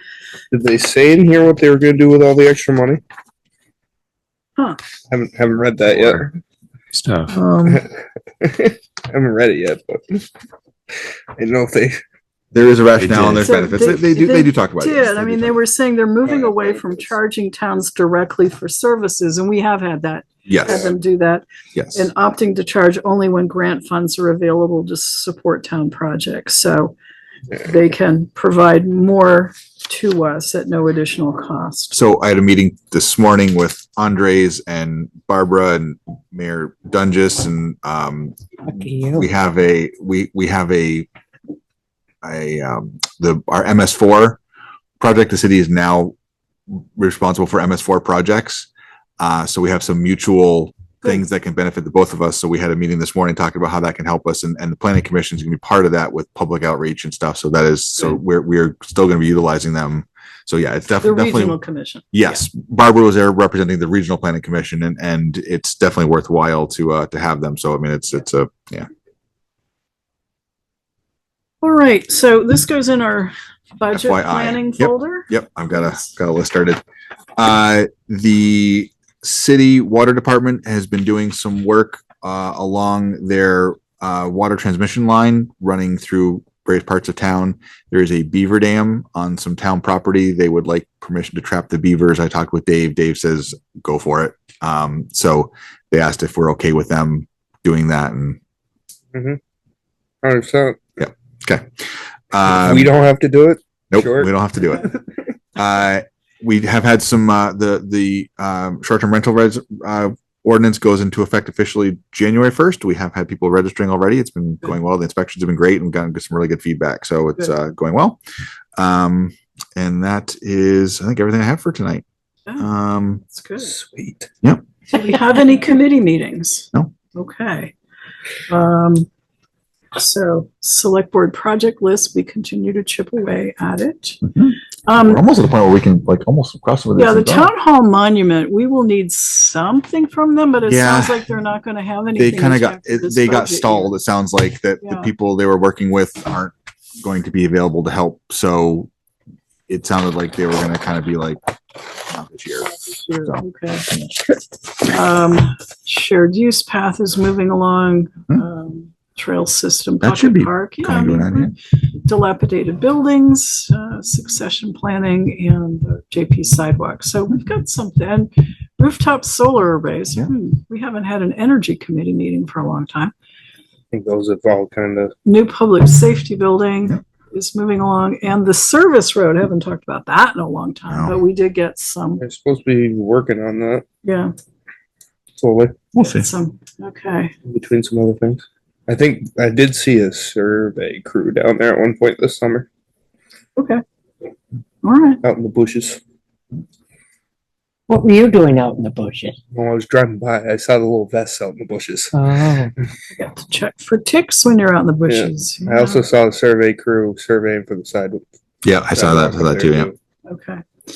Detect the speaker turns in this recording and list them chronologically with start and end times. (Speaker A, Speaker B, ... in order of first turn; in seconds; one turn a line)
Speaker A: 0.5-3.0
Speaker A: 5.1-6.4
Speaker B: 6.0-6.2
Speaker B: 6.9-7.4
Speaker C: 7.3-7.9
Speaker A: 8.4-10.3
Speaker A: 10.9-12.0
Speaker D: 12.5-15.5
Speaker B: 13.0-13.5
Speaker C: 13.4-26.9
Speaker D: 20.5-20.8
Speaker D: 21.8-22.1
Speaker C: 27.6-31.9
Speaker D: 31.9-41.1
Speaker B: 38.7-39.2
Speaker D: 42.2-44.4
Speaker D: 45.0-46.1
Speaker D: 46.7-48.7
Speaker D: 49.2-61.6
Speaker C: 61.0-62.4
Speaker D: 62.1-68.9
Speaker C: 71.6-75.3
Speaker D: 73.9-76.8
Speaker D: 77.4-98.4
Speaker A: 99.1-99.4
Speaker A: 100.2-100.8
Speaker D: 101.0-101.7
Speaker D: 102.3-102.9
Speaker A: 102.6-104.3
Speaker D: 103.9-104.9
Speaker D: 105.5-118.2
Speaker D: 118.8-122.0
Speaker D: 122.6-123.2
Speaker C: 123.3-123.7
Speaker A: 123.6-124.3
Speaker C: 124.9-127.7
Speaker C: 128.5-129.1
Speaker C: 129.9-134.3
Speaker D: 134.2-137.5
Speaker C: 134.8-135.2
Speaker C: 136.9-143.9
Speaker D: 140.7-141.2
Speaker D: 142.2-148.9
Speaker C: 144.8-145.1
Speaker D: 149.7-151.4
Speaker D: 152.0-152.8
Speaker C: 152.6-153.9
Speaker C: 154.8-173.1
Speaker D: 160.0-161.5
Speaker A: 173.9-175.1
Speaker C: 175.2-182.2
Speaker D: 180.9-181.1
Speaker A: 182.2-183.8
Speaker C: 184.0-184.3
Speaker A: 185.4-185.8
Speaker D: 185.9-186.3
Speaker C: 186.0-187.3
Speaker A: 187.4-192.7
Speaker C: 193.6-193.8
Speaker C: 194.8-195.2
Speaker A: 195.2-196.0
Speaker B: 197.9-199.3
Speaker A: 199.5-202.1
Speaker B: 202.1-202.7
Speaker C: 203.1-206.0
Speaker A: 205.1-208.2
Speaker D: 208.6-209.9
Speaker A: 208.9-209.9
Speaker C: 210.2-210.6